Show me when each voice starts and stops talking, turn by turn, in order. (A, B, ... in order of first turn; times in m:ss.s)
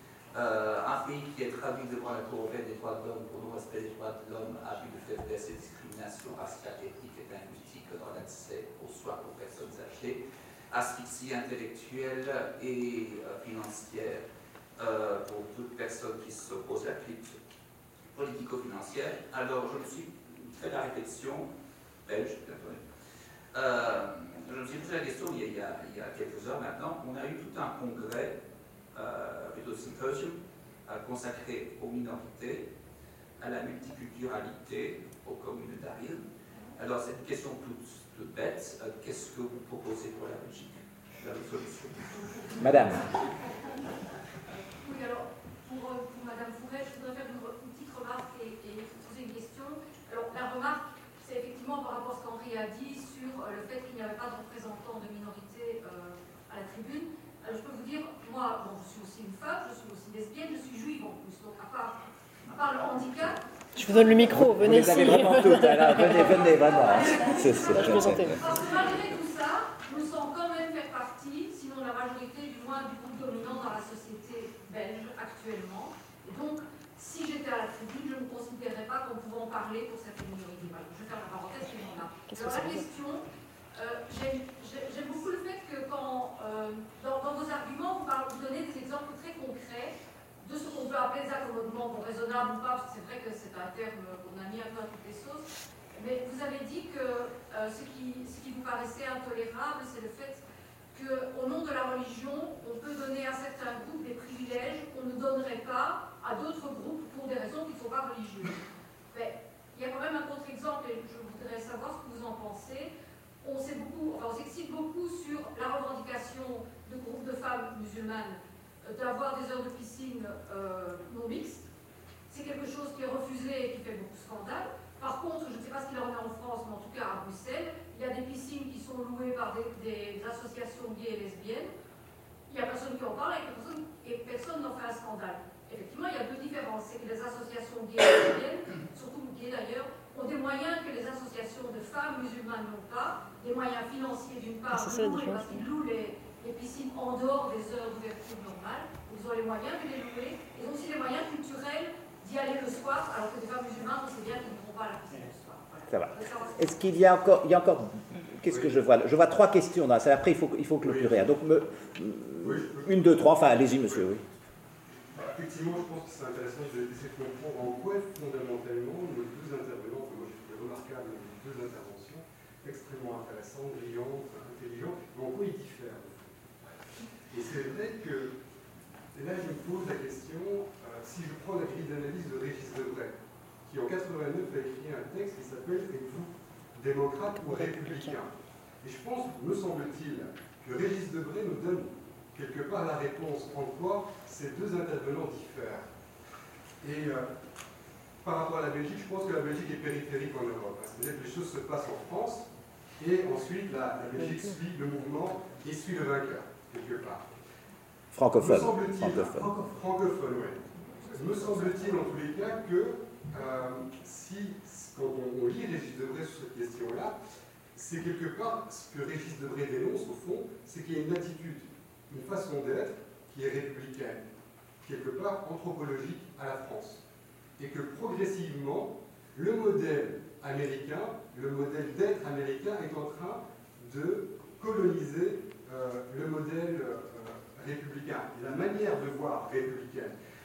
0:00.3-0:14.3 A
0:14.8-0:17.4 A
0:18.1-0:21.5 A
0:22.0-0:22.8 A
0:23.5-0:28.4 A
0:28.9-0:32.7 A
0:33.4-0:36.2 A
0:36.7-0:42.8 A
0:42.6-0:43.1 B
0:44.8-1:03.4 C
1:03.8-1:06.4 D
1:04.3-1:08.4 B
1:06.4-1:40.4 C
1:06.9-1:08.4 D
1:22.3-1:22.8 D
1:40.9-1:48.6 C
1:49.1-1:52.9 C
1:53.4-2:01.7 C
2:02.3-2:11.7 C
2:12.5-2:37.2 C
2:24.7-2:25.5 D
2:35.9-2:44.2 B
2:38.5-2:38.7 E
2:40.8-2:41.2 E
2:42.4-2:44.2 E
2:45.2-2:56.4 E
2:57.3-2:58.4 E
2:59.1-3:15.9 E
3:16.8-3:17.3 E
3:18.2-3:27.3 E
3:28.1-3:29.5 B
3:28.4-3:37.2 E
3:37.7-3:44.3 E
3:44.8-3:47.0 E
3:47.6-4:00.2 E